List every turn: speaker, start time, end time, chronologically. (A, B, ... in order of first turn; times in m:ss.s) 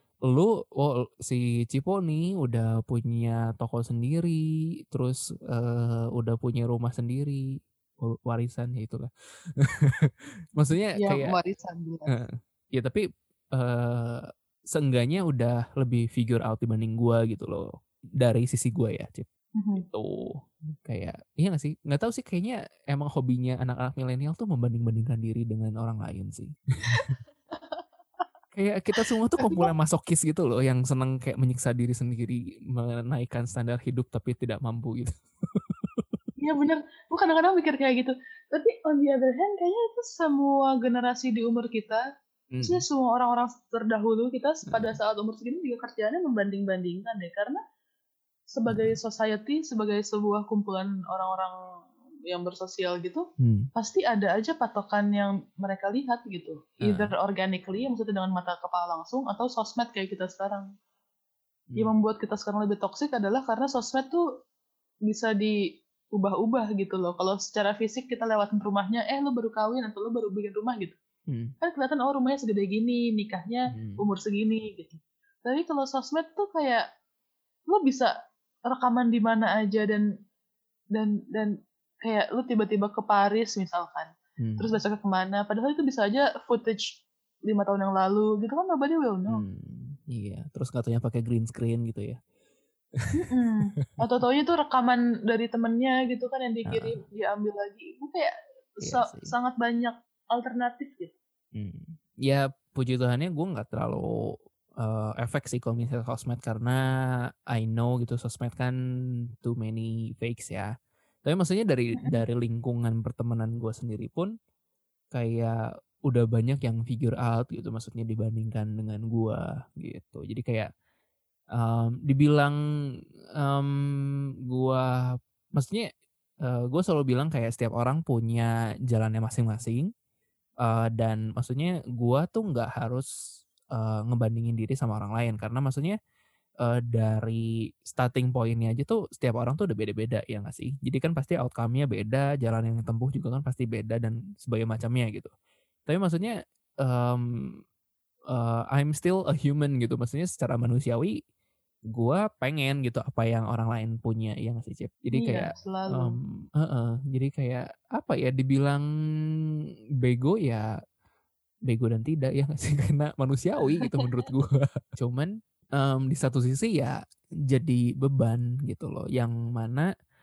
0:00.2-0:07.4 A
0:08.0-0:11.3 A
0:11.0-0:12.1 B
0:12.1-0:17.6 A
0:18.2-0:27.1 A
0:19.6-0:19.8 B
0:26.9-0:27.8 B
0:28.5-0:36.0 A
0:29.0-0:29.7 B
0:36.4-0:42.0 B
0:42.5-0:42.8 A
0:42.6-0:47.6 B
0:44.7-0:44.9 A
0:48.5-0:51.5 B
0:48.7-0:49.0 A
0:52.3-1:00.7 B
0:53.4-0:53.7 A
0:56.8-0:57.1 A
1:01.8-1:04.2 B
1:05.1-1:05.5 B
1:06.2-1:11.0 B
1:11.3-1:11.5 A
1:11.6-1:16.8 B
1:13.7-1:14.0 A
1:17.7-1:18.1 B
1:18.7-1:20.0 B
1:20.9-1:21.5 B
1:22.0-1:29.4 B
1:24.4-1:24.7 A
1:29.3-1:32.2 A
1:33.1-1:38.3 B
1:36.7-1:37.0 A
1:38.8-1:41.1 B
1:38.8-1:39.3 A
1:41.5-1:46.8 A
1:47.5-1:48.7 A
1:49.4-1:50.7 A
1:51.2-1:54.3 A
1:55.1-2:00.7 A
2:01.6-2:02.5 A
2:03.4-2:05.9 A
2:06.4-2:09.9 A
2:10.6-2:13.1 A
2:13.7-2:16.0 A
2:16.6-2:25.3 A
2:25.9-2:27.6 A
2:28.3-2:31.2 A
2:31.9-2:38.8 A
2:35.1-2:36.2 B
2:40.0-2:40.6 A
2:41.6-2:46.9 A
2:47.5-2:49.9 A